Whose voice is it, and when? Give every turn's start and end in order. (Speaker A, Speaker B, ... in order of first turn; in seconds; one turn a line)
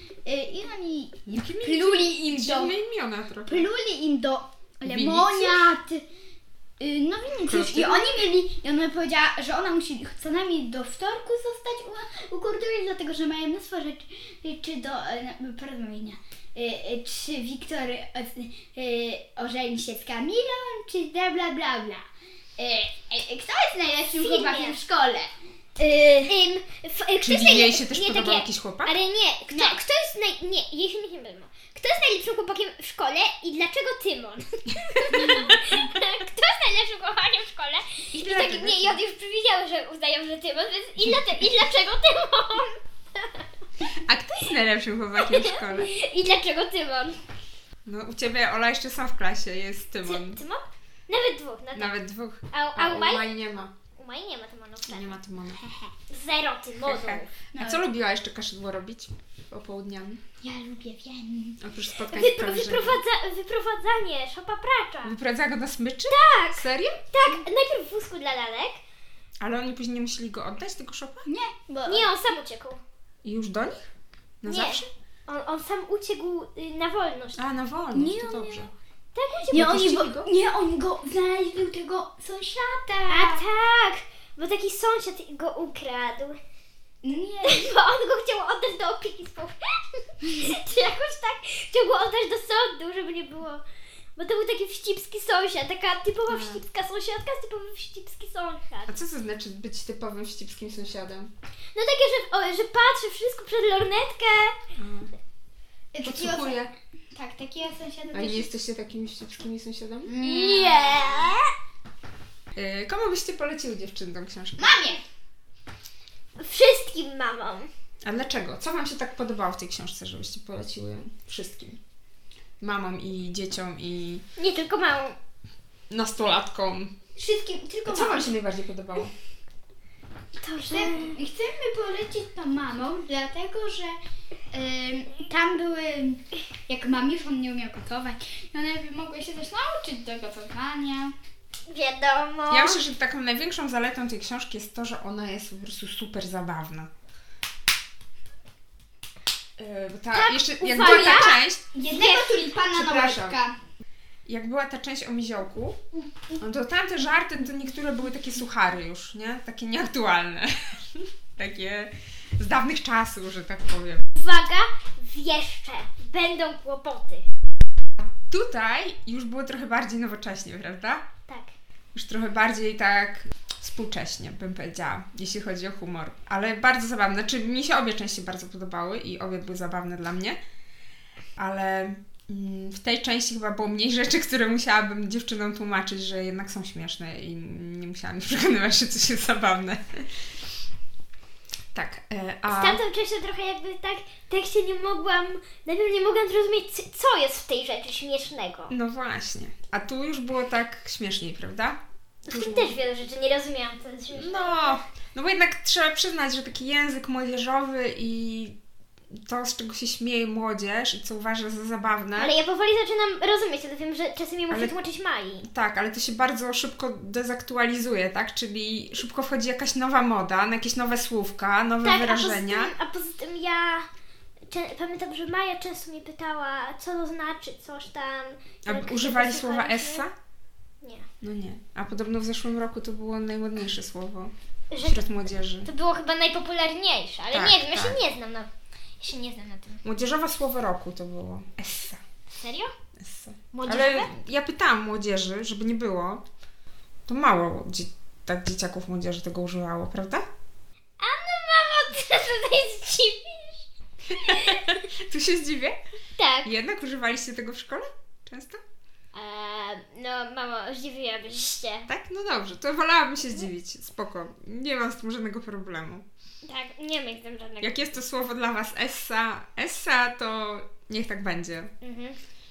Speaker A: 0.2-2.7
Speaker B: 1.3-3.7
Speaker A: 3.5-6.0
Speaker B: 4.8-5.7
Speaker A: 6.8-22.1
Speaker B: 7.5-8.2
Speaker A: 22.6-26.3
Speaker C: 24.2-24.8
Speaker C: 26.2-43.5
Speaker B: 27.2-28.9
Speaker A: 29.5-29.8
Speaker B: 35.2-35.5
Speaker B: 38.1-39.0
Speaker B: 44.0-45.9
Speaker C: 45.2-47.2
Speaker B: 47.9-50.4
Speaker C: 50.0-51.9
Speaker B: 51.7-53.7
Speaker C: 52.5-53.3
Speaker C: 53.9-55.1
Speaker B: 54.9-55.6
Speaker C: 56.1-57.3
Speaker B: 56.8-60.2
Speaker A: 57.5-57.9
Speaker A: 60.4-61.6
Speaker B: 61.6-63.0
Speaker C: 62.1-65.2
Speaker B: 65.0-67.0
Speaker C: 66.1-68.8
Speaker B: 69.4-71.3
Speaker A: 71.2-72.1
Speaker C: 71.8-72.8
Speaker B: 73.2-73.8
Speaker B: 74.4-74.9
Speaker C: 74.5-77.4
Speaker B: 77.4-78.7
Speaker A: 77.9-78.7
Speaker C: 79.1-79.7
Speaker A: 79.5-83.4
Speaker B: 79.5-80.3
Speaker C: 83.1-86.4
Speaker A: 87.0-87.7
Speaker C: 87.4-93.6
Speaker C: 94.2-98.9
Speaker B: 96.3-96.6
Speaker B: 98.9-101.3
Speaker C: 101.7-104.6
Speaker B: 104.8-105.1
Speaker A: 105.9-108.5
Speaker B: 106.0-106.7
Speaker B: 108.1-110.1
Speaker A: 110.0-111.3
Speaker C: 110.2-111.5
Speaker B: 112.5-114.8
Speaker A: 114.6-115.0
Speaker C: 116.4-117.7
Speaker B: 118.0-121.8
Speaker B: 122.6-124.2
Speaker C: 124.4-125.2
Speaker B: 125.9-126.9
Speaker A: 127.2-128.3
Speaker B: 127.8-129.1
Speaker C: 130.4-131.2
Speaker A: 130.6-134.0
Speaker A: 134.5-141.1
Speaker C: 141.7-142.8
Speaker B: 142.5-146.9
Speaker B: 149.6-151.6
Speaker C: 150.1-152.5
Speaker A: 150.8-153.5
Speaker B: 152.6-153.4
Speaker B: 154.2-155.8
Speaker B: 156.4-164.1
Speaker C: 164.2-167.2
Speaker B: 168.0-171.0
Speaker C: 171.3-171.5
Speaker B: 171.9-180.4
Speaker B: 181.4-190.2
Speaker B: 191.7-192.8
Speaker C: 192.5-198.7
Speaker B: 198.7-202.7
Speaker C: 202.3-204.8
Speaker B: 204.1-208.6
Speaker B: 209.1-212.3
Speaker C: 212.2-215.5
Speaker B: 214.5-214.7
Speaker B: 215.4-222.7
Speaker C: 221.8-223.9
Speaker C: 224.5-230.1
Speaker B: 228.7-230.1
Speaker C: 230.8-231.1
Speaker B: 231.2-235.7
Speaker C: 234.7-235.1
Speaker C: 235.7-239.8
Speaker B: 237.3-238.0
Speaker B: 239.8-242.0
Speaker C: 242.3-242.7
Speaker B: 243.0-246.2
Speaker C: 243.5-244.1
Speaker B: 247.1-250.2
Speaker C: 251.0-253.6
Speaker B: 254.1-255.8
Speaker C: 254.2-254.6
Speaker C: 256.2-256.5
Speaker B: 256.4-258.6
Speaker C: 259.1-261.9
Speaker B: 261.9-266.1
Speaker C: 266.4-267.9
Speaker B: 267.6-271.7
Speaker C: 271.8-272.2